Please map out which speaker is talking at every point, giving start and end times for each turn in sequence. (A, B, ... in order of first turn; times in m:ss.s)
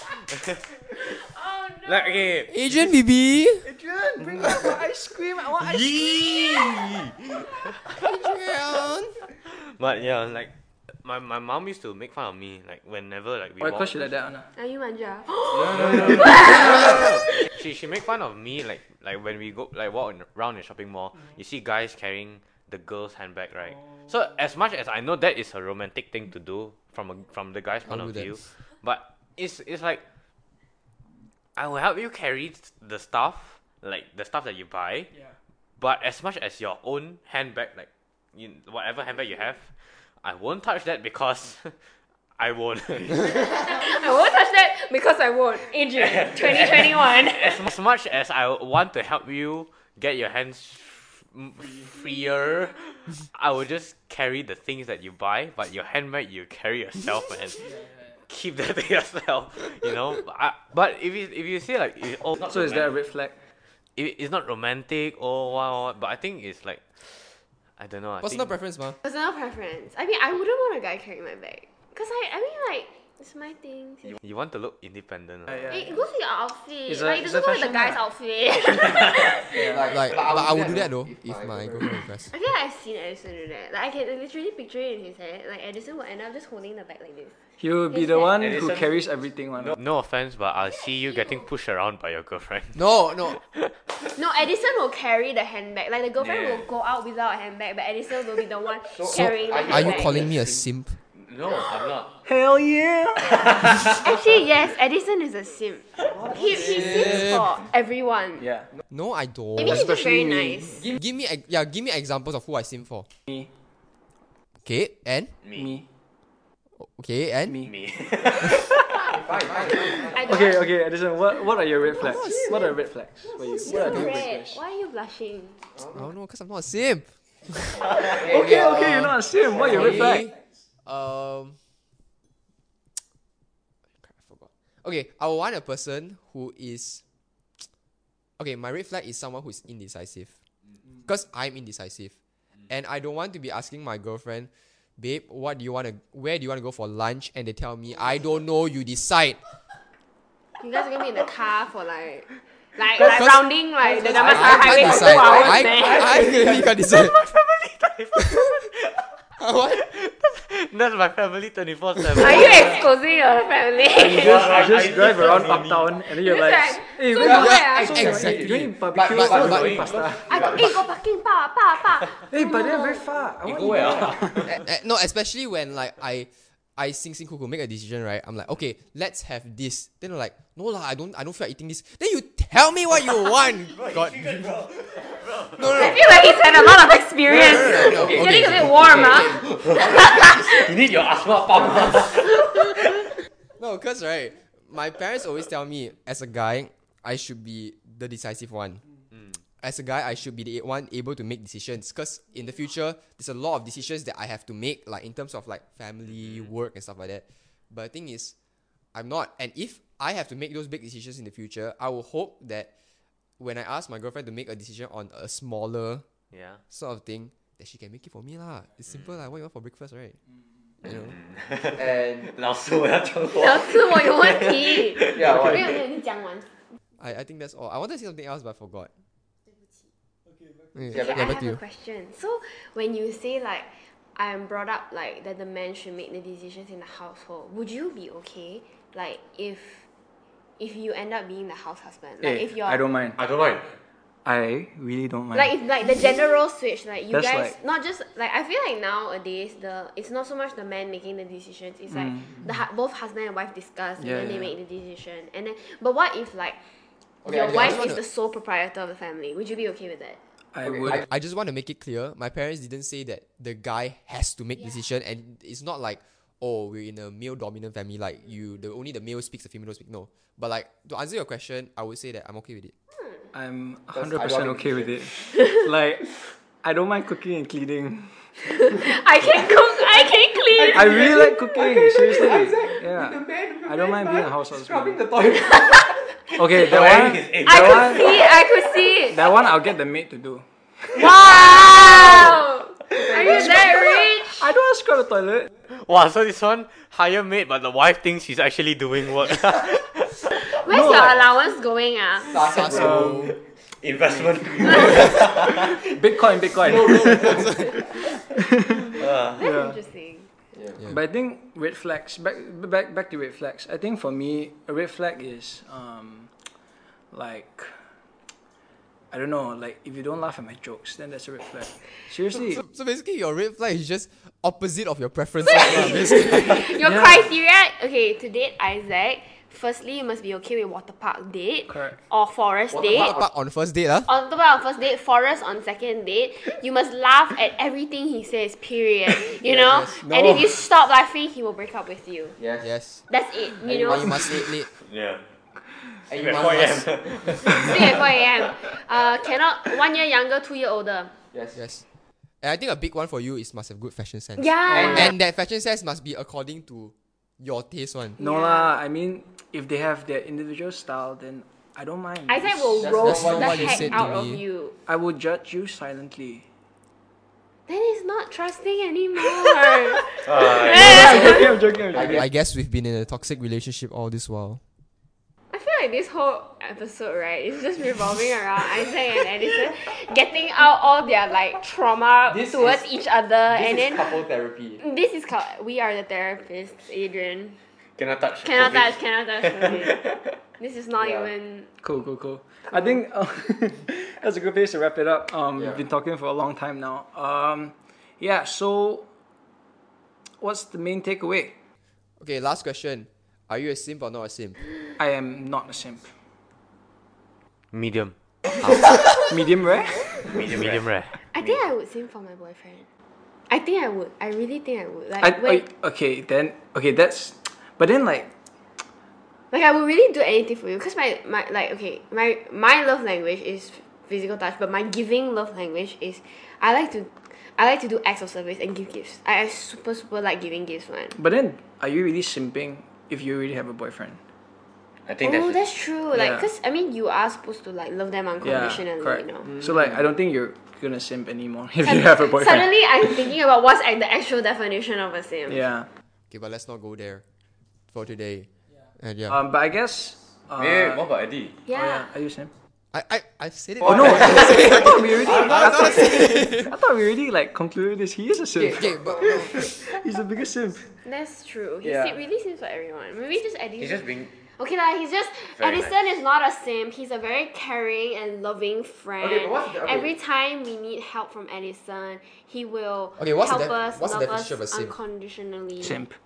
0:00.9-0:02.3 A
0:01.8-0:02.5 B
0:02.5-0:03.7 C
0:03.6-0:06.4 D
0:04.4-0:04.7 C
0:05.6-0:07.9 B
0:07.8-0:09.2 C
0:09.4-0:14.1 B
0:13.6-0:14.5 D
0:14.5-0:17.5 A
0:15.5-0:17.0 E
0:15.7-0:30.0 B
0:27.8-0:28.4 C
0:31.6-0:35.1 B
0:35.1-0:35.4 D
0:35.8-0:41.8 B
0:42.4-0:43.8 B
0:43.5-0:47.6 A
0:46.1-0:46.9 E
0:47.3-0:57.7 B
0:57.6-0:58.2 D
0:58.3-1:02.8 B
1:02.4-1:02.9 E
1:02.5-1:03.4 D
1:04.0-1:08.5 B
1:08.2-1:09.0 C
1:09.0-1:14.2 A
1:14.2-1:15.7 B
1:15.5-1:16.0 D
1:15.7-1:19.7 A
1:16.9-1:18.0 D
1:19.5-1:19.8 D
1:19.6-1:22.0 F
1:19.8-1:22.3 C
1:22.3-1:27.4 A
1:27.6-1:29.8 D
1:27.9-1:28.4 A
1:28.4-1:29.0 E
1:29.7-1:33.7 B
1:30.7-1:31.5 A
1:32.7-1:33.4 C
1:34.2-1:40.2 A
1:36.2-1:36.6 E
1:38.9-1:40.6 F
1:39.0-1:41.0 C
1:41.1-1:42.2 E
1:42.2-1:44.0 D
1:43.4-1:44.0 E
1:44.0-1:48.4 A
1:46.1-1:46.8 D
1:46.7-1:47.6 C
1:46.7-1:46.9 F
1:48.4-1:48.7 D
1:48.9-1:49.9 C
1:49.6-1:50.8 A
1:49.6-1:50.8 D
1:50.9-1:53.1 C
1:54.6-1:55.3 C
1:55.5-1:55.9 D
1:56.8-1:57.6 C
1:57.5-1:57.7 D
1:57.7-1:58.6 B
1:57.9-1:58.8 E
1:59.0-2:00.2 F
1:59.4-2:00.0 C
2:00.1-2:00.6 A
2:00.2-2:04.6 D
2:02.0-2:02.8 C
2:03.2-2:05.6 A
2:05.7-2:06.1 F
2:05.9-2:10.3 C
2:08.0-2:10.3 F
2:08.2-2:10.4 D
2:10.8-2:11.6 C
2:14.0-2:17.0 C
2:18.4-2:20.3 C
2:21.0-2:22.1 C
2:22.7-2:29.4 C
2:30.6-2:36.4 A
2:33.0-2:33.5 C
2:34.1-2:37.2 C
2:34.8-2:36.4 E
2:36.8-2:42.8 B
2:39.4-2:39.8 C
2:42.2-2:44.6 A
2:42.4-2:42.7 D
2:43.9-2:50.4 D
2:44.0-2:46.0 E
2:45.0-2:45.4 B
2:46.2-2:48.3 A
2:47.2-2:49.9 C
2:47.2-2:50.0 F
2:49.2-2:50.9 E
2:50.2-2:53.1 A
2:52.3-2:54.5 D
2:53.4-2:54.6 E
2:54.4-3:04.5 C
3:03.4-3:06.0 E
3:05.5-3:06.3 C
3:05.8-3:10.7 A
3:07.3-3:10.3 C
3:07.5-3:12.8 E
3:13.6-3:18.8 C
3:19.6-3:28.3 C
3:26.2-3:26.5 B
3:28.9-3:32.7 C
3:33.4-3:36.0 C
3:36.3-3:36.6 B
3:36.7-3:40.2 C
3:40.8-3:41.1 C
3:41.2-3:41.8 B
3:41.6-3:45.8 E
3:41.8-3:42.2 F
3:43.3-3:46.5 A
3:45.2-3:45.5 F
3:47.0-3:48.9 C
3:49.5-3:49.9 A
3:50.3-3:51.0 D
3:50.7-3:51.6 C
3:50.9-3:59.8 A
3:50.9-3:51.3 F
4:00.6-4:02.8 A
4:02.2-4:03.2 D
4:03.2-4:03.8 E
4:04.2-4:05.6 D
4:05.3-4:16.6 A
4:07.1-4:07.6 D
4:11.9-4:12.4 D
4:14.0-4:14.5 D
4:17.2-4:18.0 C
4:17.3-4:17.7 F
4:17.3-4:20.2 A
4:20.5-4:21.0 D
4:20.6-4:21.0 F
4:20.9-4:32.7 C
4:33.3-4:38.3 D
4:33.9-4:35.0 F
4:38.6-4:41.2 A
4:40.7-4:45.0 D
4:40.7-4:45.8 F
4:45.6-4:45.9 A
4:46.3-4:48.1 D
4:46.5-4:48.1 E
4:47.4-4:49.3 A
4:49.1-4:52.3 D
4:50.9-4:54.5 A
4:52.9-4:55.5 D
4:55.7-5:00.2 B
5:00.3-5:02.7 A
5:00.6-5:01.2 D
5:02.3-5:03.2 F
5:02.3-5:03.4 C
5:02.7-5:03.4 D
5:03.3-5:05.8 E
5:04.0-5:07.6 D
5:06.7-5:07.5 F
5:07.1-5:07.7 C
5:08.3-5:09.8 D
5:08.9-5:09.4 E
5:09.4-5:10.3 A
5:10.8-5:16.3 D
5:17.1-5:17.8 D
5:19.1-5:22.6 D
5:22.5-5:26.7 C
5:25.4-5:33.1 A
5:26.8-5:27.3 D
5:31.7-5:32.0 D
5:32.7-5:33.2 F
5:32.9-5:34.1 C
5:34.0-5:42.4 A
5:39.5-5:40.0 C
5:39.9-5:40.5 D
5:42.4-5:42.7 F
5:42.6-5:43.0 C
5:43.1-5:44.3 A
5:43.6-5:44.4 F
5:43.7-5:44.7 C
5:44.7-5:45.2 E
5:46.1-5:47.3 F
5:46.1-5:48.1 E
5:47.4-5:51.1 A
5:51.3-5:51.6 F
5:51.5-5:51.8 C
5:52.4-5:58.2 C
5:54.4-5:55.2 A
5:54.7-5:55.1 D
5:58.2-6:03.9 D
5:58.2-5:58.7 A
6:02.3-6:04.7 A
6:02.8-6:03.4 F
6:02.8-6:04.4 C
6:04.8-6:06.4 D
6:07.7-6:11.6 A
6:10.2-6:11.5 E
6:10.4-6:12.3 D
6:11.9-6:14.6 C
6:15.5-6:24.2 A
6:22.3-6:22.8 F
6:23.5-6:24.8 F
6:24.0-6:24.8 C
6:24.8-6:27.6 A
6:28.0-6:30.3 E
6:28.4-6:31.7 A
6:31.0-6:31.3 F
6:31.8-6:39.1 D
6:40.4-6:41.6 D
6:42.2-6:44.6 C
6:45.0-6:46.1 D
6:47.7-6:48.8 B
6:49.3-6:50.3 D
6:50.2-6:51.6 E
6:50.4-6:51.2 B
6:51.3-6:52.9 A
6:53.5-6:55.6 A
6:55.2-6:58.3 D
6:59.5-7:11.2 A
7:11.2-7:14.2 D
7:15.0-7:15.6 E
7:15.2-7:19.5 A
7:16.1-7:16.5 D
7:18.4-7:22.7 D
7:21.8-7:25.6 A
7:25.5-7:25.9 D
7:26.3-7:27.2 C
7:27.9-7:29.4 C
7:29.3-7:31.0 D
7:30.6-7:31.6 E
7:31.6-7:32.1 A
7:31.7-7:32.5 D
7:32.9-7:36.7 C
7:33.8-7:40.9 D
7:34.3-7:36.1 E
7:38.6-7:39.2 F
7:38.6-7:39.8 C
7:41.0-7:56.0 A
7:41.8-7:42.2 D
7:43.8-7:44.3 B
7:45.6-7:45.9 B
7:49.2-7:50.0 F
7:49.2-7:50.1 C
7:53.2-7:54.9 C
7:55.8-7:56.2 D